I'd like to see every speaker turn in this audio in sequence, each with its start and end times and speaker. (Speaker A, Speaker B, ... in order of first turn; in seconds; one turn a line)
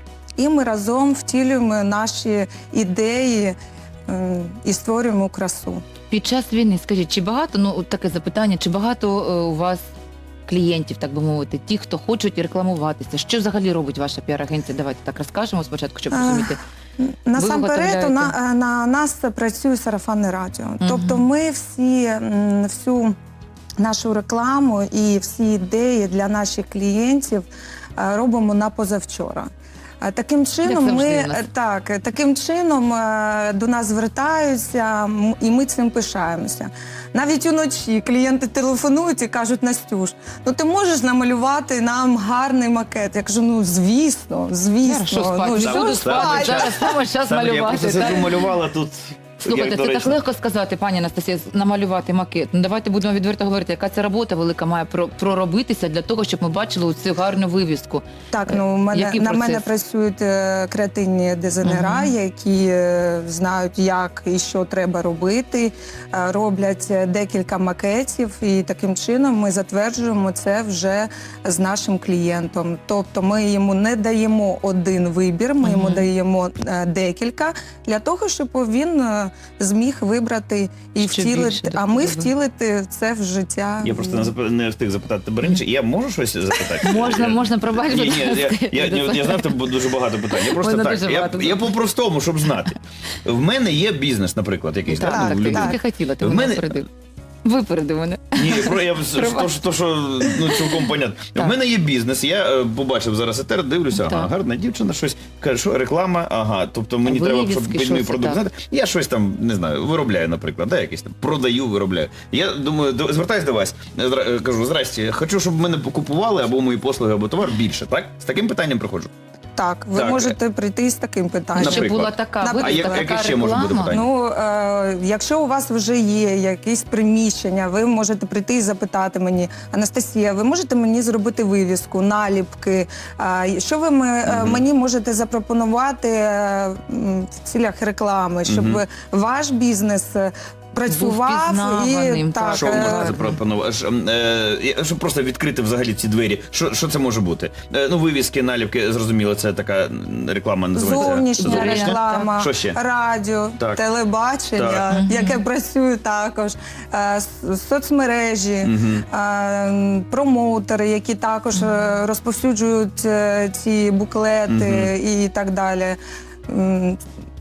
Speaker A: 0.4-3.6
Speaker A: 4.1-5.8
Speaker B: 6.1-9.9
Speaker B: 10.5-16.6
Speaker A: 16.1-23.1
Speaker B: 17.4-18.3
Speaker B: 20.8-21.2
Speaker A: 23.8-27.4
Speaker A: 28.0-29.5
Speaker A: 30.0-46.9
Speaker B: 30.6-31.4
Speaker B: 44.8-48.3
Speaker C: 45.6-50.2
Speaker B: 49.4-59.6
Speaker A: 58.3-84.3
Speaker B: 61.6-62.1
Speaker B: 75.6-76.1
Speaker B: 81.0-82.3
Speaker C: 83.8-96.8
Speaker B: 86.8-91.7
Speaker B: 94.9-96.9
Speaker A: 95.0-95.8
Speaker B: 97.4-99.6
Speaker C: 98.3-119.1
Speaker B: 100.2-101.5
Speaker B: 103.9-104.3
Speaker B: 107.0-108.4
Speaker A: 119.6-123.1
Speaker C: 119.9-120.3
Speaker B: 121.5-123.9
Speaker C: 121.6-124.1
Speaker A: 123.9-143.1
Speaker C: 134.2-134.6
Speaker C: 138.4-138.8
Speaker B: 140.9-143.4
Speaker C: 142.5-152.8
Speaker A: 150.7-166.0
Speaker B: 150.8-152.3
Speaker C: 154.6-154.8
Speaker B: 154.9-155.4
Speaker C: 158.6-159.1
Speaker B: 161.6-161.9
Speaker C: 164.5-164.9
Speaker A: 166.5-167.0